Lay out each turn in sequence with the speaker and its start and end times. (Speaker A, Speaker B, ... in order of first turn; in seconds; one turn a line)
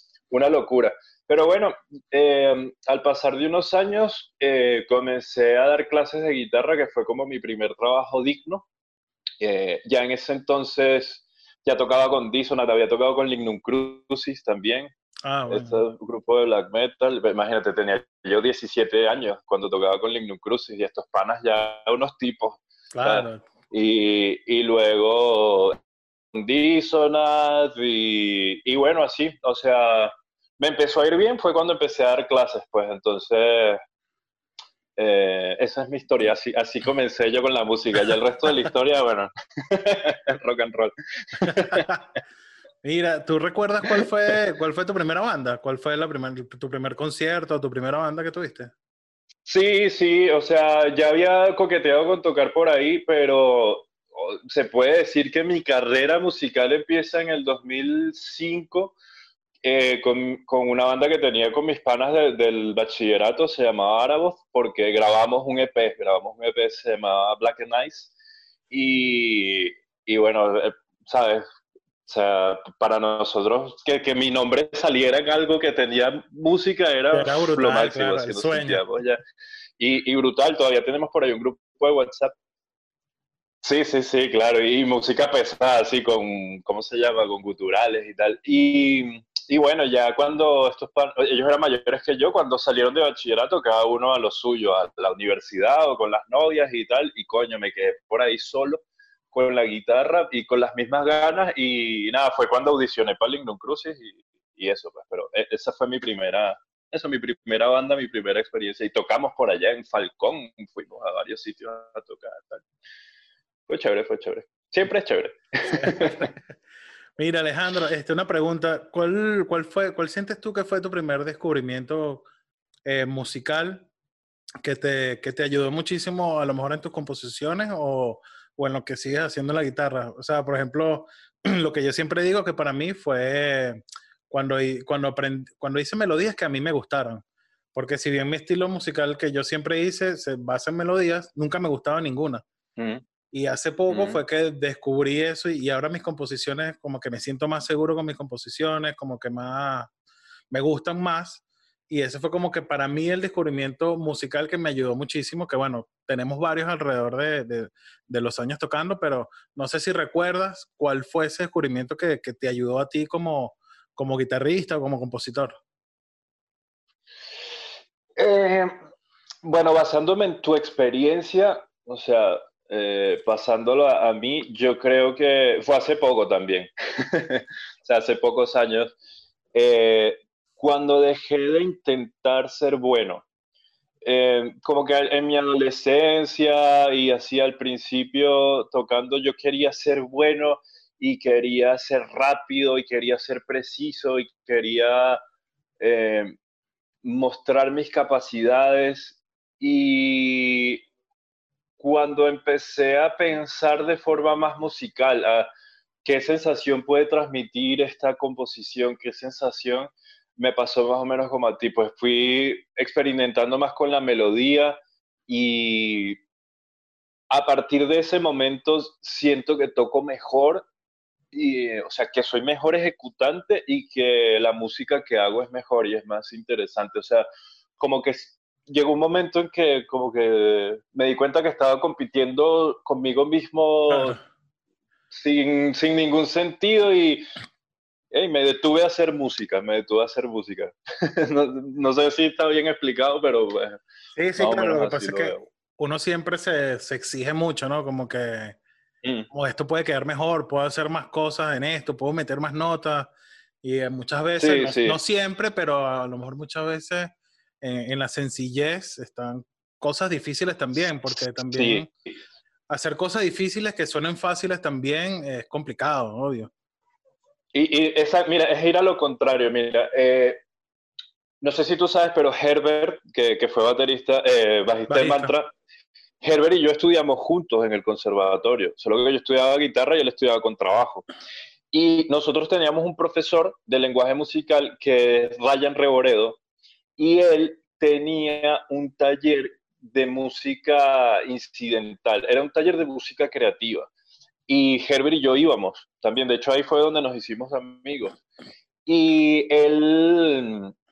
Speaker A: 0.3-8.7
Speaker A: 9.4-14.9
Speaker B: 15.2-15.8
Speaker A: 15.5-25.8
Speaker B: 22.9-23.4
Speaker A: 26.3-33.8
Speaker A: 35.0-41.9
Speaker B: 41.4-42.0
Speaker B: 42.8-48.7
Speaker A: 49.5-59.0
Speaker A: 59.6-68.1
Speaker A: 68.7-71.4
Speaker A: 72.0-79.2
Speaker B: 77.1-78.8
Speaker A: 79.8-82.3
Speaker A: 83.6-112.6
Speaker A: 113.7-116.3
Speaker B: 115.7-116.4
Speaker B: 117.2-122.3
Speaker B: 122.8-123.9
Speaker B: 124.6-137.2
Speaker B: 137.7-142.4
Speaker A: 142.8-143.0
Speaker B: 143.3-149.9
Speaker A: 143.9-144.2
Speaker B: 150.5-165.6
Speaker A: 168.2-168.7
Speaker A: 169.4-178.9
Speaker A: 179.5-183.2
Speaker A: 184.0-195.2
Speaker A: 195.8-196.4
Speaker A: 197.0-200.8
Speaker A: 201.8-205.5
Speaker A: 206.0-216.2
Speaker A: 217.3-220.7
Speaker A: 221.3-227.2
Speaker A: 227.8-234.2
Speaker B: 233.9-234.2
Speaker A: 235.1-237.3
Speaker A: 238.1-243.8
Speaker B: 244.2-248.6
Speaker A: 244.4-245.4
Speaker A: 249.0-249.3
Speaker B: 249.3-253.1
Speaker B: 253.6-261.9
Speaker A: 254.4-255.0
Speaker A: 261.4-262.2
Speaker B: 262.7-266.5
Speaker A: 267.5-270.4
Speaker A: 271.4-275.5
Speaker B: 274.9-275.3
Speaker A: 276.2-281.1
Speaker A: 281.7-286.4
Speaker A: 287.0-293.9
Speaker A: 294.5-298.1
Speaker A: 298.9-300.7